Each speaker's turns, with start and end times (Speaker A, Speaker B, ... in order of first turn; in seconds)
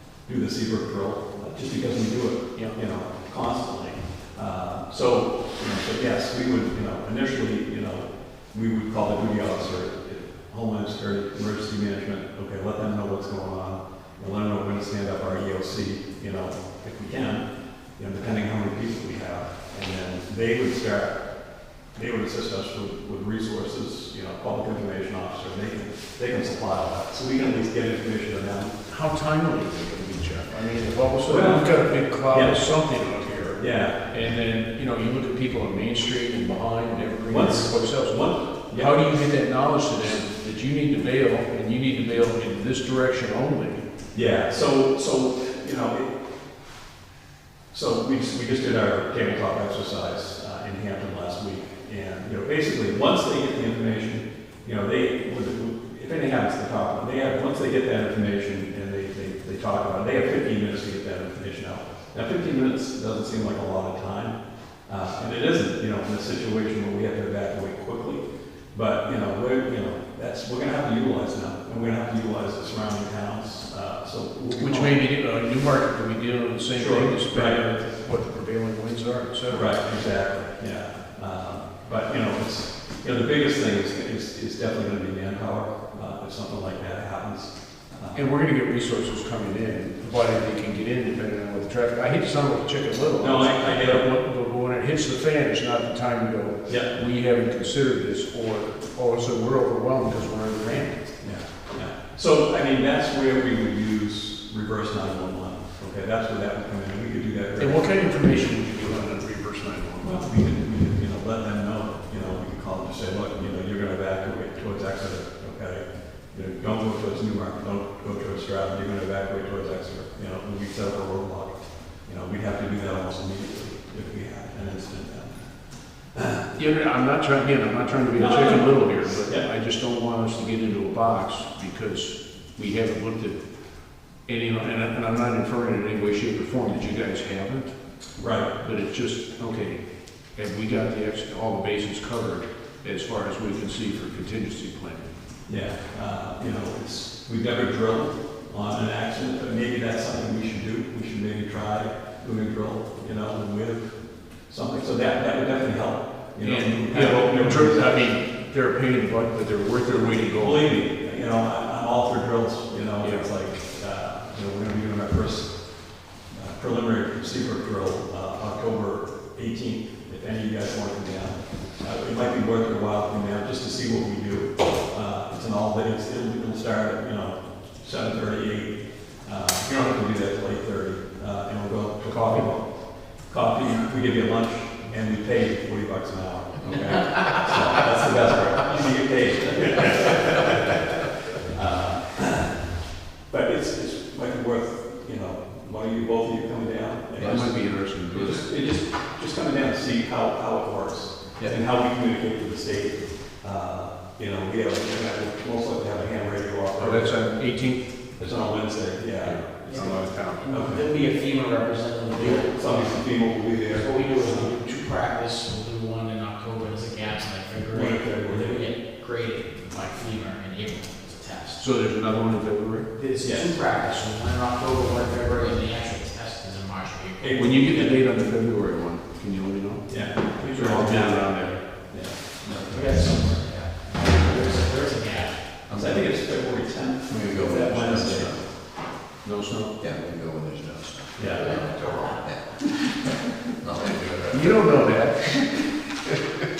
Speaker A: 0.2-21.3, 21.9-28.8, 31.2-32.7, 33.6-34.0, 37.3-39.0, 44.1-46.2, 47.7-75.0, 76.7-77.6, 79.5-88.2, 93.2-94.1, 96.7-97.0, 101.2-108.1, 110.0-125.5, 126.1-126.5, 128.1-129.5, 138.2-138.5, 145.5-158.1, 160.3-165.7, 166.3-190.9, 191.5-192.7, 193.3-207.4, 208.2-210.9, 212.1-214.5, 217.7-218.7, 223.2-223.5, 227.2-228.0, 229.9-233.4, 235.7-238.5, 241.2-241.6
Speaker B: 28.9-43.9, 74.6-79.7, 88.1-101.2, 107.6-110.2, 126.5-145.1, 156.4-160.6, 163.0-163.3, 182.1-182.4, 197.2-198.4, 206.8-208.2, 209.2-210.6, 221.6-222.9, 227.3-231.9, 239.2-239.8, 244.3-245.5
Speaker C: 197.2-197.5, 235.7-236.5, 237.1-238.6, 239.8-244.8
Speaker D: 209.7-221.6, 222.9-227.4, 232.7-235.5, 241.3-242.2